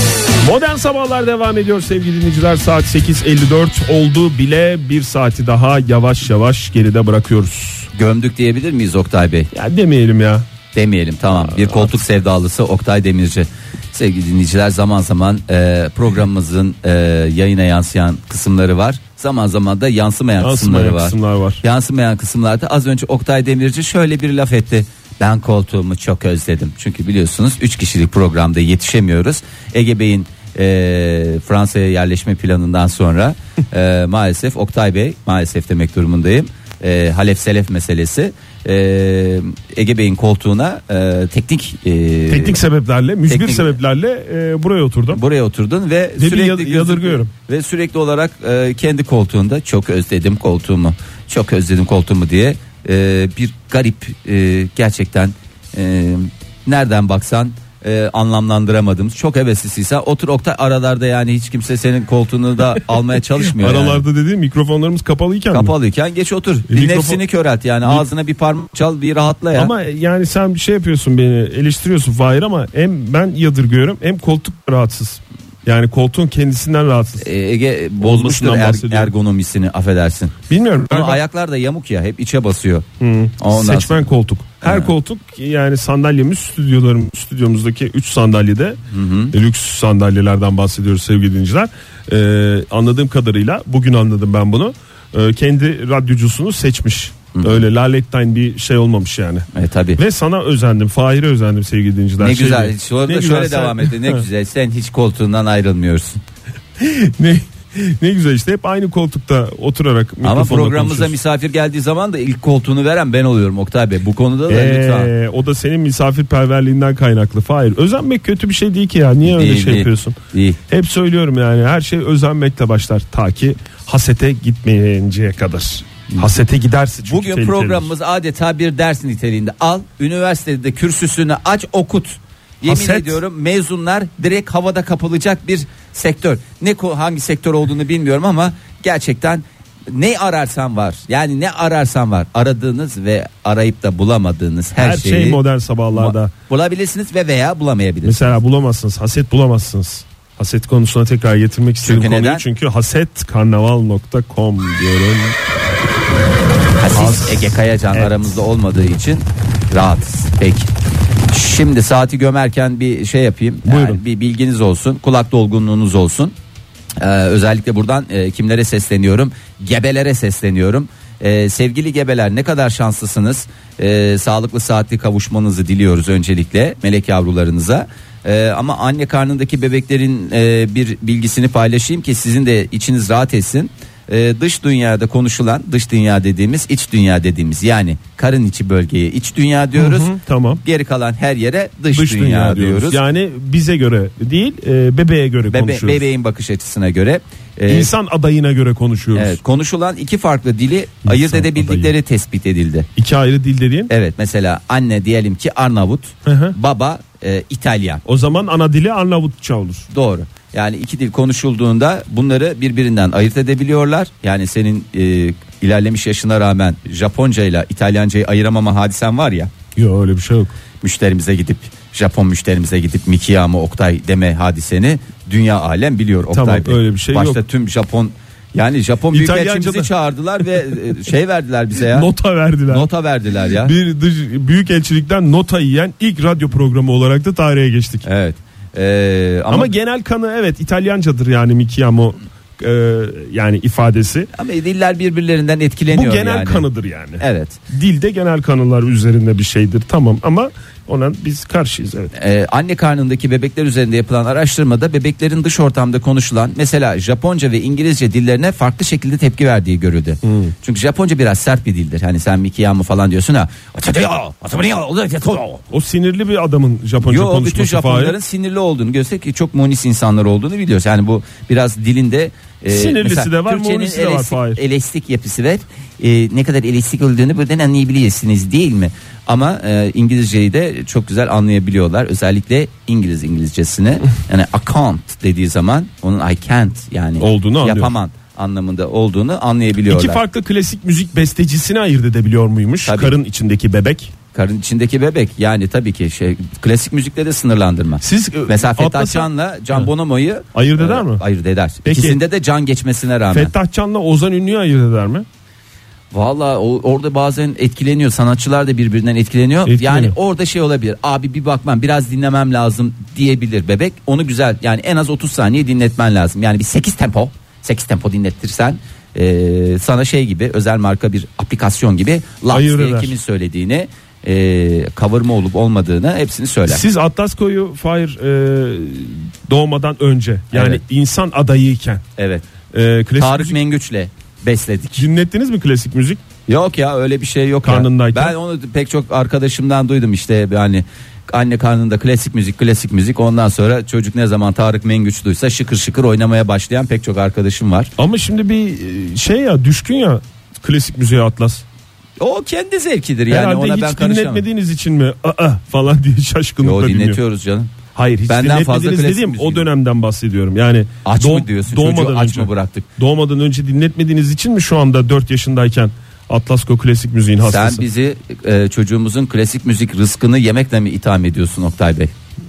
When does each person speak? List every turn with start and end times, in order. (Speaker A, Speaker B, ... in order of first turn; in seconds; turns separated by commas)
Speaker A: 0.4-7.9, Speaker B: 7.9-9.5, Speaker A: 9.5-10.5, Speaker B: 10.7-42.6, Speaker A: 11.5-11.9, Speaker A: 20.4-21.6, Speaker A: 42.3-45.2, Speaker B: 43.3-43.8, Speaker B: 45.1-64.0, Speaker A: 46.2-47.3, Speaker A: 63.5-65.7, Speaker B: 65.5-69.7, Speaker A: 66.7-67.2, Speaker A: 69.5-77.3, Speaker B: 77.2-82.9, Speaker A: 78.0-79.1, Speaker A: 80.5-81.2, Speaker A: 83.0-88.8, Speaker B: 83.4-84.1, Speaker B: 84.6-84.9, Speaker B: 88.9-89.3, Speaker A: 89.3-104.2, Speaker B: 97.3-97.7, Speaker B: 99.5-100.0, Speaker B: 102.2-106.2, Speaker A: 106.8-111.2, Speaker B: 110.2-115.1, Speaker A: 114.5-120.2, Speaker B: 119.2-120.6, Speaker A: 120.7-127.9, Speaker B: 127.1-145.4, Speaker A: 132.7-133.2, Speaker A: 144.8-146.3, Speaker B: 145.9-148.3, Speaker A: 148.0-155.4, Speaker B: 151.8-152.4, Speaker B: 156.8-160.7, Speaker A: 156.9-158.9, Speaker B: 161.3-166.3, Speaker A: 163.7-164.0, Speaker B: 167.0-193.0, Speaker A: 189.8-190.6, Speaker A: 191.9-196.0, Speaker B: 195.5-197.9, Speaker A: 197.7-199.4, Speaker B: 199.2-202.9, Speaker A: 201.1-201.9, Speaker A: 203.0-203.9, Speaker B: 203.9-208.0, Speaker A: 206.3-206.6, Speaker A: 208.1-209.9, Speaker B: 209.9-219.5, Speaker A: 219.8-220.6, Speaker B: 220.8-232.1, Speaker A: 226.3-227.4, Speaker A: 229.1-229.9, Speaker A: 231.8-232.9, Speaker B: 232.7-233.7, Speaker A: 233.6-238.1, Speaker B: 238.0-239.7, Speaker A: 239.5-244.3, Speaker B: 244.3-246.7, Speaker A: 245.9-252.1, Speaker B: 247.2-247.6, Speaker B: 252.1-265.6, Speaker A: 260.2-260.5, Speaker A: 265.7-268.2, Speaker B: 267.0-290.2, Speaker A: 272.7-274.6, Speaker A: 287.2-287.9, Speaker A: 289.9-294.1, Speaker B: 292.8-293.1, Speaker B: 294.3-303.5, Speaker A: 298.0-299.9, Speaker A: 300.5-301.2, Speaker A: 301.8-302.2, Speaker A: 303.3-305.3, Speaker B: 306.1-326.8, Speaker A: 309.6-310.1, Speaker A: 322.5-323.1, Speaker A: 326.7-332.0, Speaker B: 330.5-330.8, Speaker B: 332.2-332.5, Speaker A: 332.7-333.6, Speaker B: 333.2-335.1, Speaker A: 335.0-336.2, Speaker B: 336.5-347.9, Speaker A: 337.6-338.4, Speaker A: 348.0-351.6, Speaker B: 352.2-354.5, Speaker A: 353.3-357.2, Speaker B: 356.6-357.7, Speaker A: 357.9-367.8, Speaker B: 358.3-359.7, Speaker B: 361.1-362.9, Speaker B: 367.4-372.1